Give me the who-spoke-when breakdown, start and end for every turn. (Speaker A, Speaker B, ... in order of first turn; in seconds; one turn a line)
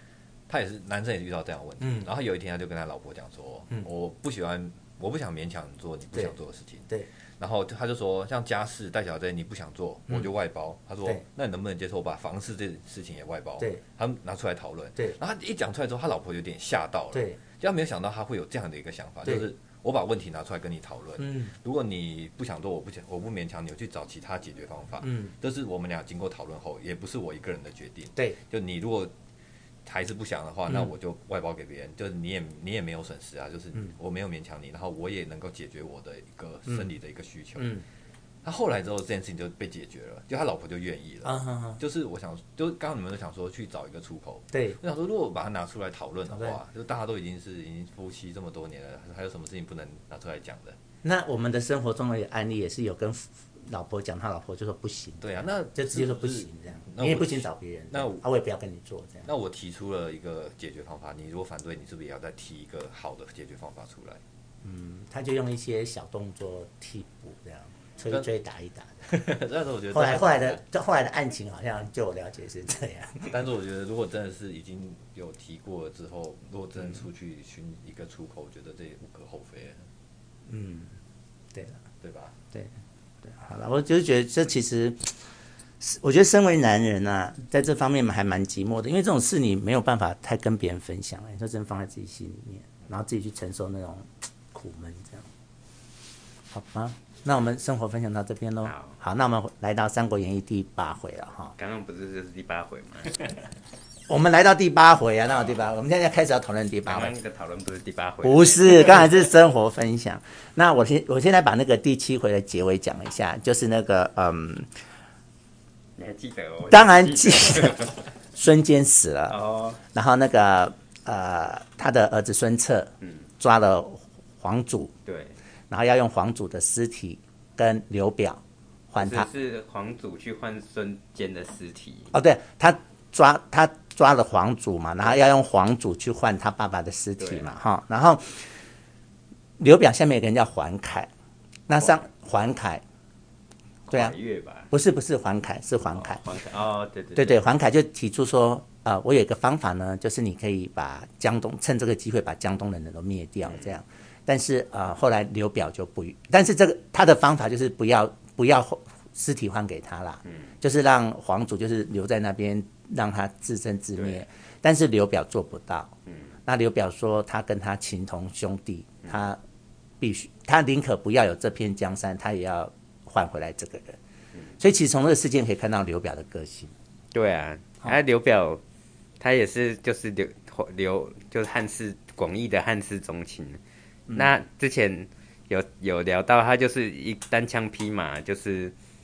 Speaker A: 0.5-29.1
Speaker B: 1.8-2.1
Speaker B: 17.1-17.4
Speaker B: 21.2-21.5
Speaker B: 25.0-25.3
Speaker A: 29.8-37.8
Speaker A: 38.4-50.8
Speaker B: 41.2-41.8
Speaker B: 44.5-44.8
Speaker B: 46.3-46.6
Speaker B: 51.0-59.3
Speaker A: 55.2-58.2
Speaker A: 59.3-64.2
Speaker B: 64.6-69.2
Speaker A: 69.1-70.6
Speaker B: 69.9-73.3
Speaker A: 73.3-79.8
Speaker B: 80.5-80.9
Speaker A: 82.0-82.3
Speaker B: 83.2-85.1
Speaker B: 85.8-95.3
Speaker B: 96.5-101.5
Speaker C: 98.6-98.9
Speaker C: 101.6-103.4
Speaker B: 104.1-107.1
Speaker C: 106.8-109.1
Speaker B: 108.2-114.7
Speaker C: 116.0-118.0
Speaker B: 116.7-119.4
Speaker C: 119.3-119.8
Speaker B: 119.9-124.9
Speaker C: 125.0-125.3
Speaker B: 125.7-129.3
Speaker C: 129.0-132.1
Speaker B: 132.1-138.5
Speaker C: 137.2-137.5
Speaker B: 139.6-141.1
Speaker B: 141.7-142.8
Speaker C: 143.9-144.7
Speaker B: 143.9-144.2
Speaker B: 144.7-146.2
Speaker C: 145.9-147.4
Speaker B: 147.1-165.9
Speaker C: 164.0-164.2
Speaker B: 166.4-169.4
Speaker B: 170.0-174.0
Speaker B: 174.6-176.7
Speaker C: 177.1-178.6
Speaker C: 179.2-183.6
Speaker B: 184.1-184.3
Speaker C: 184.1-188.7